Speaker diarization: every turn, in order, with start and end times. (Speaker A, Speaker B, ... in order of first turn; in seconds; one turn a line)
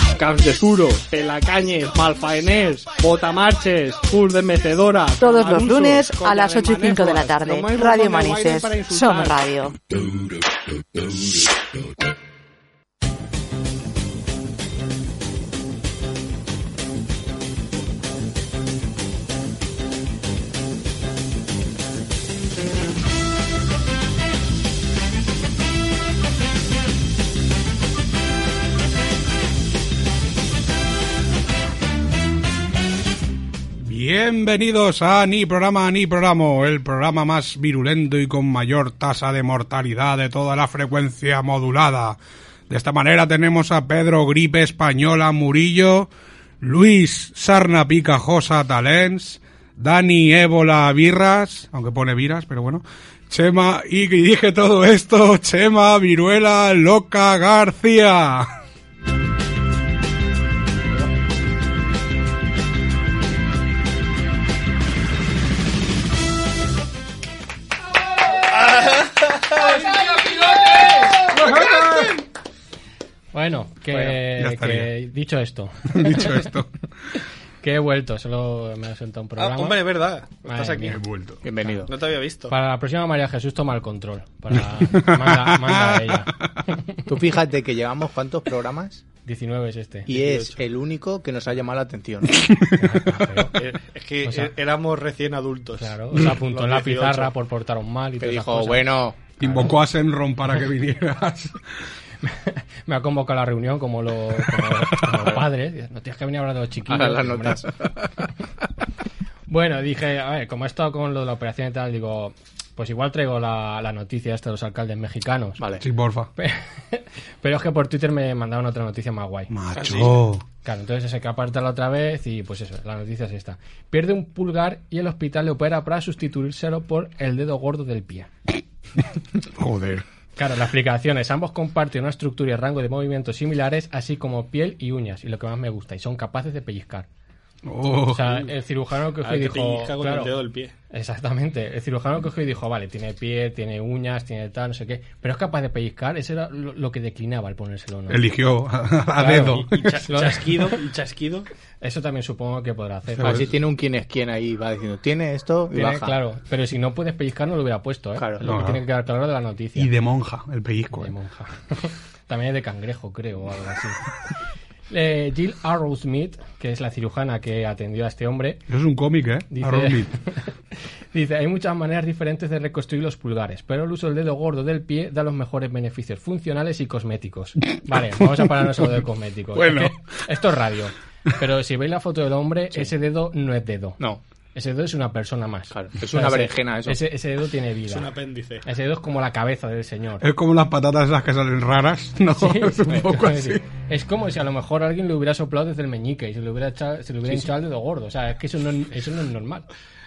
Speaker A: 0.1-9.4
Speaker B: 5.2-9.8
Speaker C: 33.8-46.1
Speaker C: 46.6-58.5
Speaker D: 68.6-69.8
Speaker C: 71.3-72.1
Speaker E: 73.3-76.4
Speaker C: 74.2-74.9
Speaker C: 75.9-76.7
Speaker E: 77.6-79.8
Speaker D: 79.4-81.0
Speaker E: 80.4-81.0
Speaker C: 80.8-81.4
Speaker F: 81.4-81.9
Speaker D: 81.8-82.5
Speaker E: 82.5-86.8
Speaker C: 84.5-86.6
Speaker F: 87.1-89.0
Speaker E: 89.2-90.1
Speaker F: 90.1-92.3
Speaker D: 90.1-90.6
Speaker C: 92.4-93.2
Speaker E: 92.8-93.5
Speaker D: 93.5-97.3
Speaker E: 94.2-94.5
Speaker E: 95.8-98.9
Speaker F: 98.2-99.2
Speaker C: 99.4-101.6
Speaker E: 102.2-107.7
Speaker C: 104.5-104.8
Speaker F: 106.9-107.8
Speaker E: 109.5-115.6
Speaker F: 115.6-115.8
Speaker C: 115.8-116.3
Speaker E: 116.4-119.5
Speaker C: 119.5-120.4
Speaker D: 119.8-120.1
Speaker E: 120.6-128.3
Speaker C: 129.4-130.1
Speaker E: 130.4-137.1
Speaker C: 137.7-138.3
Speaker E: 138.1-148.2
Speaker D: 139.2-140.7
Speaker C: 148.1-150.1
Speaker E: 149.2-150.8
Speaker D: 149.4-151.5
Speaker E: 151.8-153.5
Speaker C: 153.2-153.5
Speaker F: 153.2-156.2
Speaker E: 155.7-159.9
Speaker F: 158.2-158.5
Speaker C: 158.4-158.8
Speaker C: 159.8-161.1
Speaker E: 161.0-164.0
Speaker E: 164.9-168.6
Speaker C: 168.7-170.2
Speaker E: 169.5-170.5
Speaker E: 171.1-184.0
Speaker C: 177.9-179.0
Speaker C: 179.5-180.0
Speaker E: 184.6-188.1
Speaker F: 185.7-187.0
Speaker D: 187.9-188.6
Speaker E: 188.6-190.2
Speaker C: 190.2-193.6
Speaker E: 192.4-199.7